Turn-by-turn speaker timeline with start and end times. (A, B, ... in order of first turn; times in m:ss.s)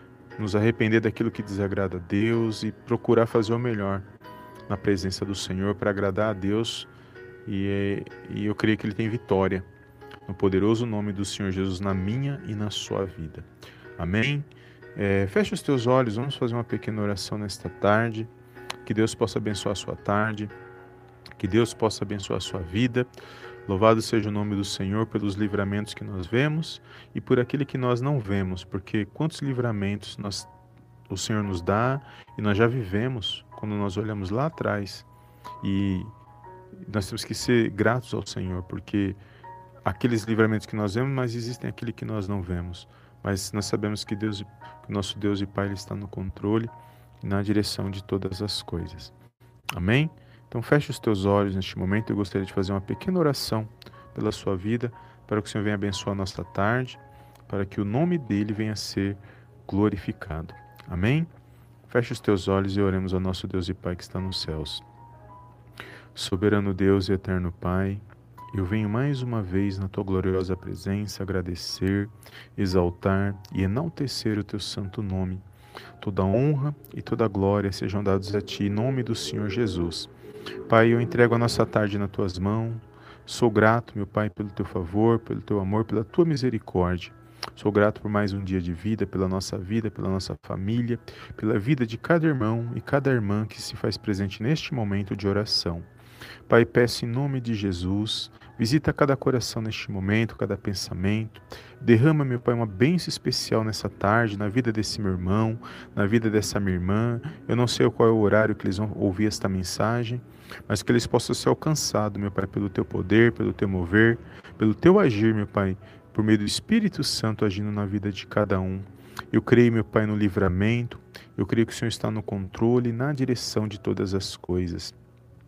0:00.4-0:04.0 A
0:04.7-0:06.9 A
0:07.5-0:09.7 A
0:10.3-0:18.3 A
0:18.8-0:20.5 A
0:21.4-0:23.1 A
0:23.7-0:30.5 A
0:31.1-0:35.1 A
0:35.6-0:36.1 A
0:36.8-0:39.2 A
0:39.8-0:49.1 A
0:49.7-1:01.3 A
1:01.9-1:04.8 A
1:06.2-1:15.4 A
1:16.0-1:20.1 A
1:20.7-1:35.9 A
1:36.5-2:05.0 A